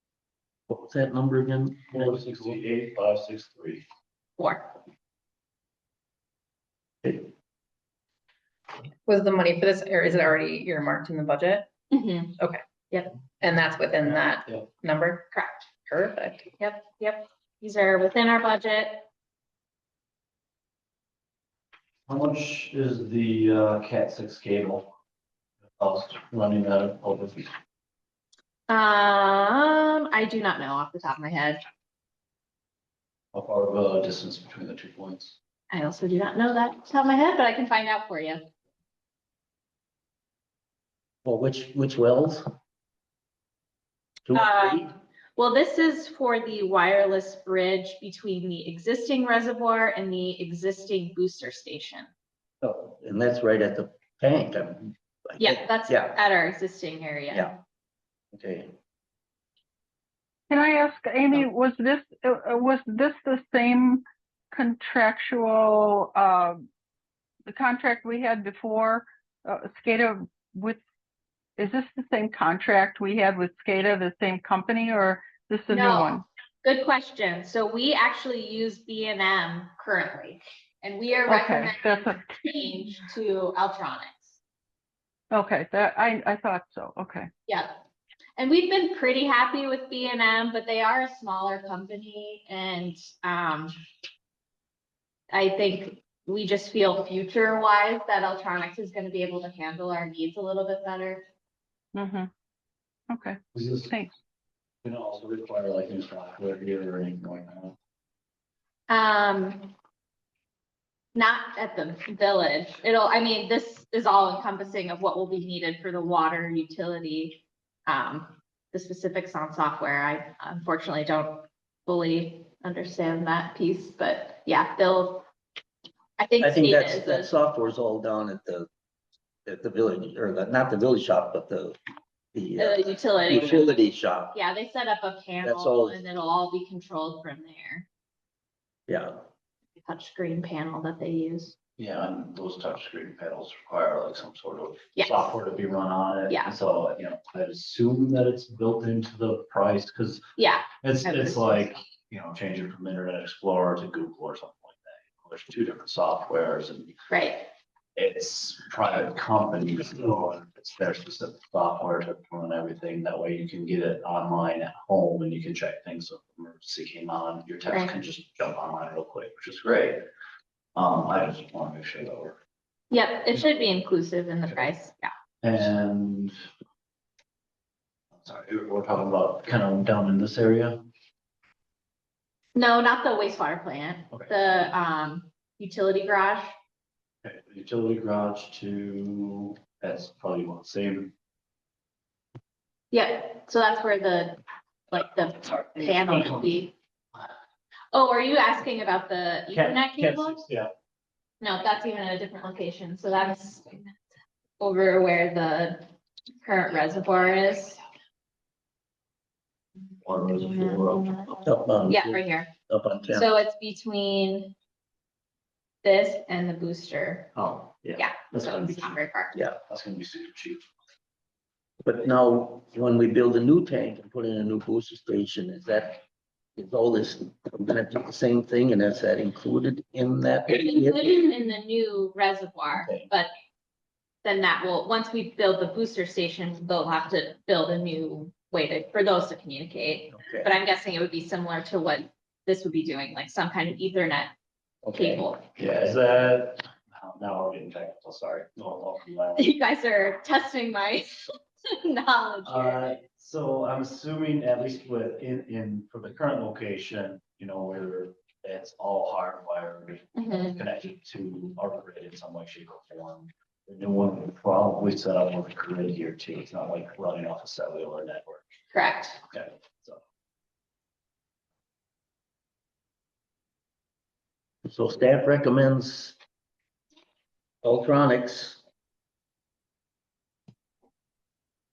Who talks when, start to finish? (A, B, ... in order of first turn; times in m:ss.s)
0:00.7-0:02.6 A
0:01.9-0:03.8 B
0:04.4-0:04.7 C
0:07.0-0:07.3 A
0:09.0-0:11.7 D
0:11.9-0:12.4 C
0:12.4-0:12.6 D
0:13.4-0:16.5 D
0:15.3-0:15.7 C
0:16.6-0:19.1 C
0:22.1-0:24.9 B
0:25.8-0:27.5 B
0:28.7-0:31.6 C
0:33.3-0:35.4 B
0:35.7-0:38.4 C
0:41.2-0:42.5 A
0:44.2-0:44.9 A
0:44.3-0:52.1 C
0:52.6-0:56.2 A
0:55.4-0:57.6 C
0:58.3-0:58.7 A
1:00.5-1:06.6 E
1:07.4-1:10.8 E
1:11.6-1:16.2 E
1:15.7-1:24.4 C
1:21.3-1:22.2 E
1:25.3-1:27.3 E
1:27.5-1:27.8 C
1:28.4-1:33.8 C
1:35.3-1:41.2 C
1:41.9-1:42.3 E
1:43.1-1:43.4 E
1:43.5-1:43.9 B
1:44.8-1:47.8 B
1:48.9-1:49.7 C
1:51.2-2:05.2 C
2:06.2-2:07.3 C
2:06.4-2:08.7 A
2:09.4-2:11.8 A
2:12.3-2:14.4 A
2:12.6-2:13.8 C
2:13.3-2:13.6 B
2:14.3-2:17.9 C
2:15.4-2:16.0 A
2:18.9-2:19.2 A
2:19.8-2:21.6 C
2:21.8-2:30.2 B
2:25.0-2:25.4 C
2:26.3-2:26.6 C
2:30.4-2:31.8 C
2:30.8-2:36.9 B
2:37.1-2:37.5 C
2:38.0-2:50.0 B
2:47.7-2:47.9 C
2:50.8-2:52.4 B
2:52.9-2:55.1 C
2:55.4-2:56.4 B
2:58.2-3:00.8 B
3:02.6-3:06.5 C
3:04.1-3:04.5 B
3:07.2-3:11.1 B
3:12.9-3:16.7 C
3:15.8-3:16.6 B
3:17.9-3:20.4 C
3:19.5-3:20.7 B
3:21.4-3:24.0 C
3:24.6-3:25.9 C
3:26.4-3:27.8 C
3:30.0-3:31.3 B
3:31.4-3:33.3 A
3:31.9-3:32.5 C
3:33.1-3:34.5 C
3:35.8-3:37.3 C
3:37.3-3:38.9 B
3:38.0-3:39.4 C
3:39.3-3:39.6 A
3:39.7-3:40.6 B
3:41.8-3:46.0 A
3:46.6-3:51.2 A
3:50.5-3:53.3 C
3:52.8-3:53.1 A
3:54.2-4:04.3 C
4:00.2-4:00.5 A
4:04.8-4:05.2 A
4:04.9-4:05.4 C
4:05.6-4:09.5 B
4:09.4-4:12.9 C
4:12.4-4:28.5 B
4:20.2-4:20.6 C
4:28.7-4:29.2 C
4:29.3-4:30.0 B
4:34.6-4:36.2 A
4:37.6-4:38.6 A